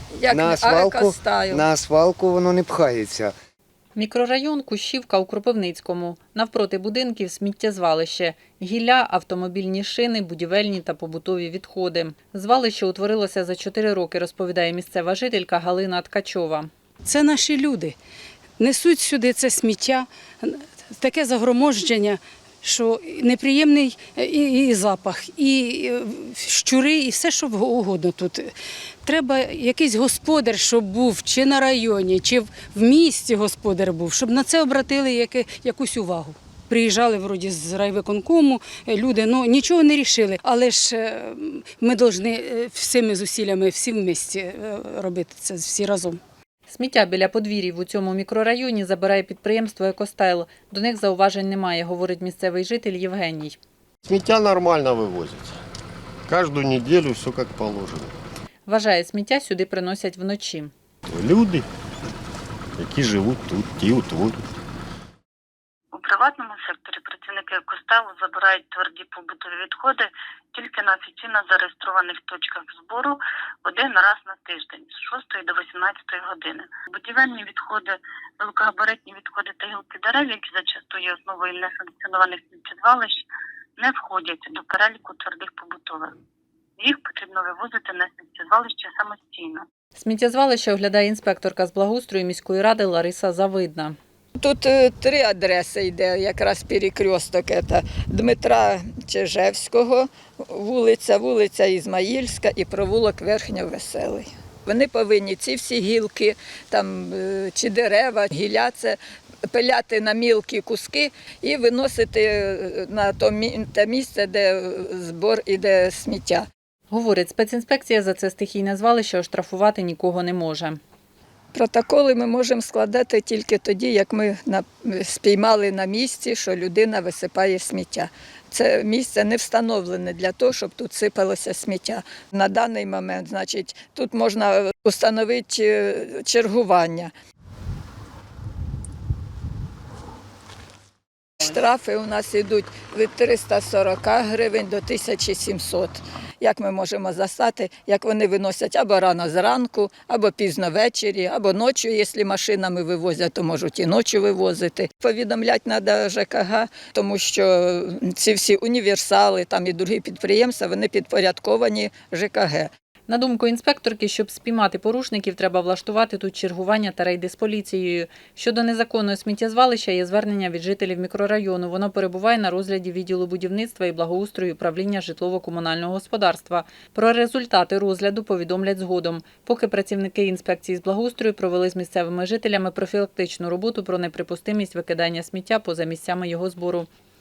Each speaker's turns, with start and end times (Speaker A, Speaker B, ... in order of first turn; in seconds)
Speaker A: 0.1-1.6, 94.4-109.0, 109.5-116.5, 121.5-137.1, 141.4-162.7
Speaker B: 0.3-3.3
Speaker C: 4.0-16.7, 46.7-53.6, 58.7-60.7, 90.0-94.0, 116.9-120.8, 163.1-186.9
Speaker D: 17.1-17.9, 18.6-28.5, 29.0-46.2
Speaker E: 54.0-55.5, 56.3-58.1, 61.1-61.7, 62.8-64.4
Speaker F: 65.9-83.2, 83.8-86.1, 86.8-89.7